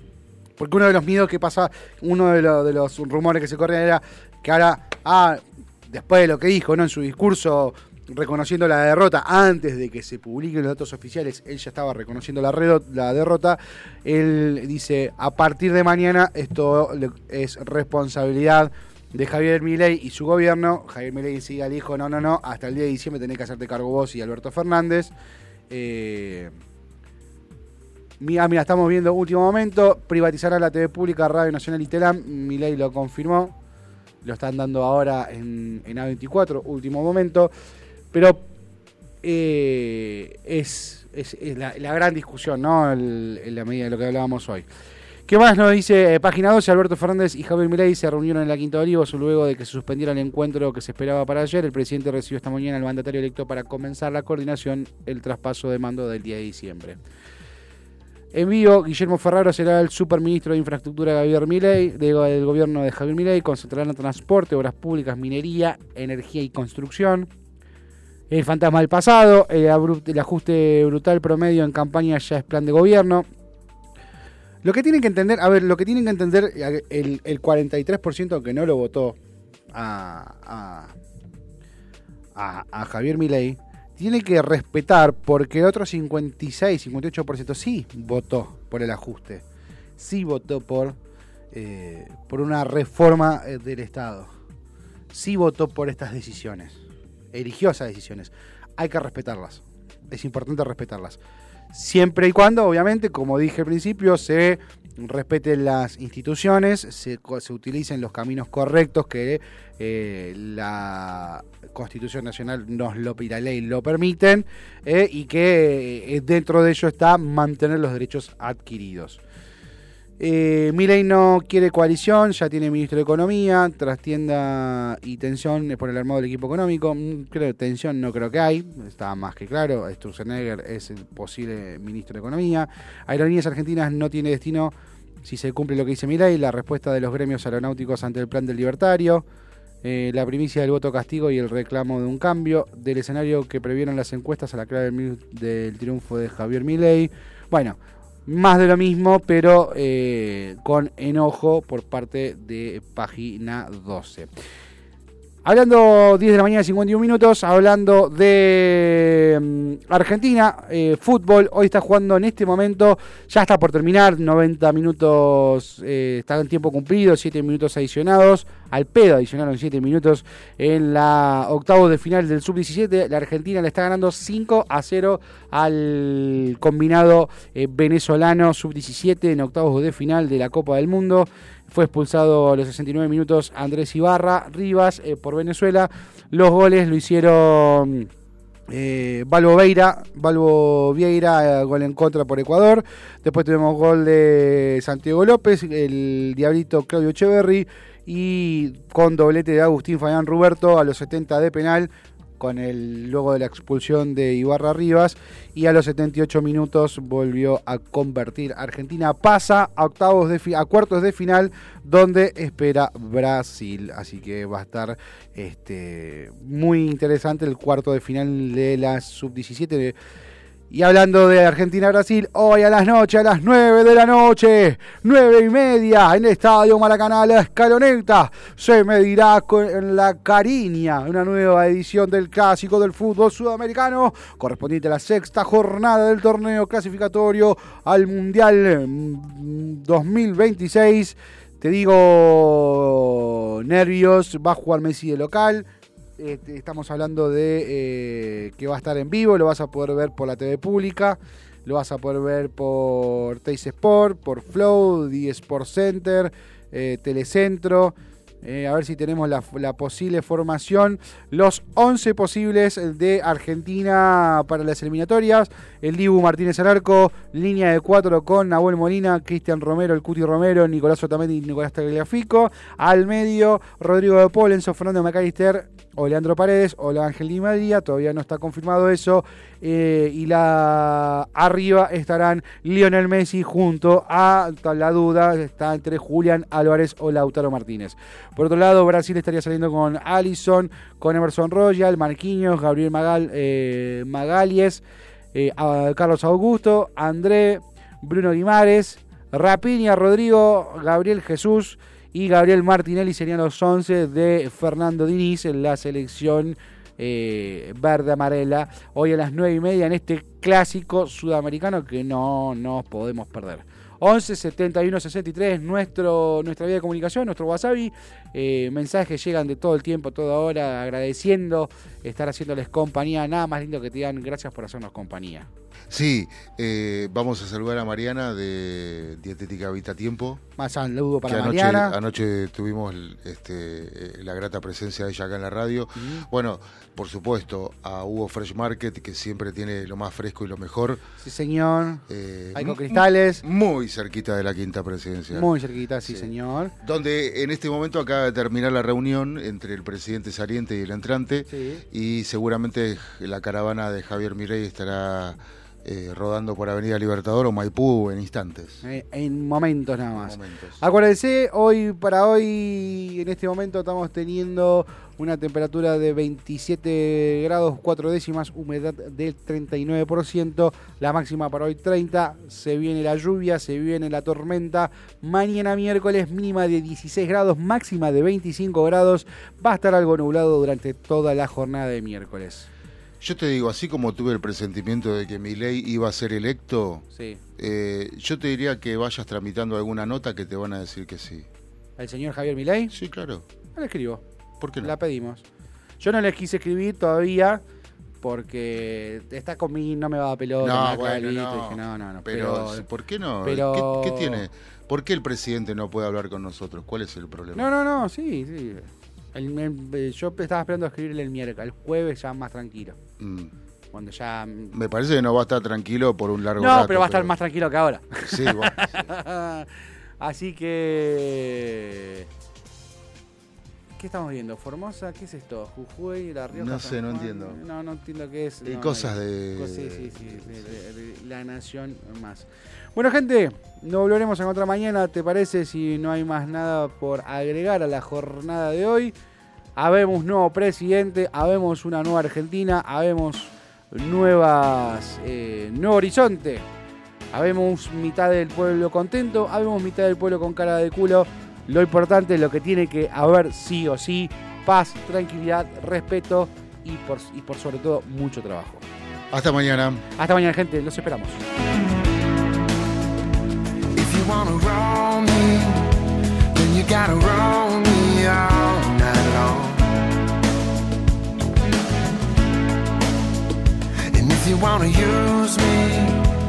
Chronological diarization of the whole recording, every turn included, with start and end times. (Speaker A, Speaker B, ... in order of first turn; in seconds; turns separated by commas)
Speaker A: 0.6-25.1, Speaker A: 25.7-26.6, Speaker A: 28.2-33.6, Speaker A: 34.2-37.5, Speaker A: 38.1-38.5, Speaker A: 39.2-44.7, Speaker A: 45.3-57.0, Speaker A: 58.3-67.3, Speaker A: 68.3-73.3, Speaker A: 74.6-79.2, Speaker A: 79.7-81.0, Speaker A: 82.4-89.4, Speaker A: 90.0-91.0, Speaker A: 91.5-94.3, Speaker A: 95.1-96.8, Speaker A: 97.3-101.2, Speaker A: 101.7-119.2, Speaker A: 120.2-134.7, Speaker A: 135.2-139.2, Speaker A: 139.8-154.3, Speaker A: 155.4-188.1, Speaker A: 188.7-219.9, Speaker A: 220.7-294.8, Speaker A: 295.3-325.5, Speaker B: 325.9-330.4, Speaker A: 330.6-332.0, Speaker B: 331.2-341.0, Speaker A: 336.0-336.2, Speaker A: 341.2-343.4, Speaker B: 342.1-345.5, Speaker A: 345.3-346.7, Speaker B: 346.1-358.8, Speaker A: 351.5-351.8, Speaker A: 358.8-382.7, Speaker B: 360.1-360.8, Speaker B: 383.2-387.1, Speaker A: 387.1-387.4, Speaker B: 387.6-391.5, Speaker A: 392.0-392.9, Speaker B: 392.9-393.4, Speaker A: 393.8-394.2, Speaker B: 394.6-394.9, Speaker A: 394.8-395.4, Speaker A: 396.0-397.6, Speaker A: 398.2-402.9, Speaker B: 400.6-407.7, Speaker A: 403.4-404.5, Speaker A: 407.6-413.0, Speaker B: 413.2-413.5, Speaker A: 413.9-414.8, Speaker B: 414.7-417.3, Speaker A: 416.6-422.3, Speaker B: 418.2-419.1, Speaker A: 424.0-439.1, Speaker B: 426.5-427.6, Speaker B: 428.6-430.5, Speaker A: 439.8-446.6, Speaker A: 447.3-458.8, Speaker B: 459.3-460.1, Speaker A: 460.2-461.4, Speaker C: 463.9-466.0, Speaker C: 466.5-469.9, Speaker C: 474.1-476.3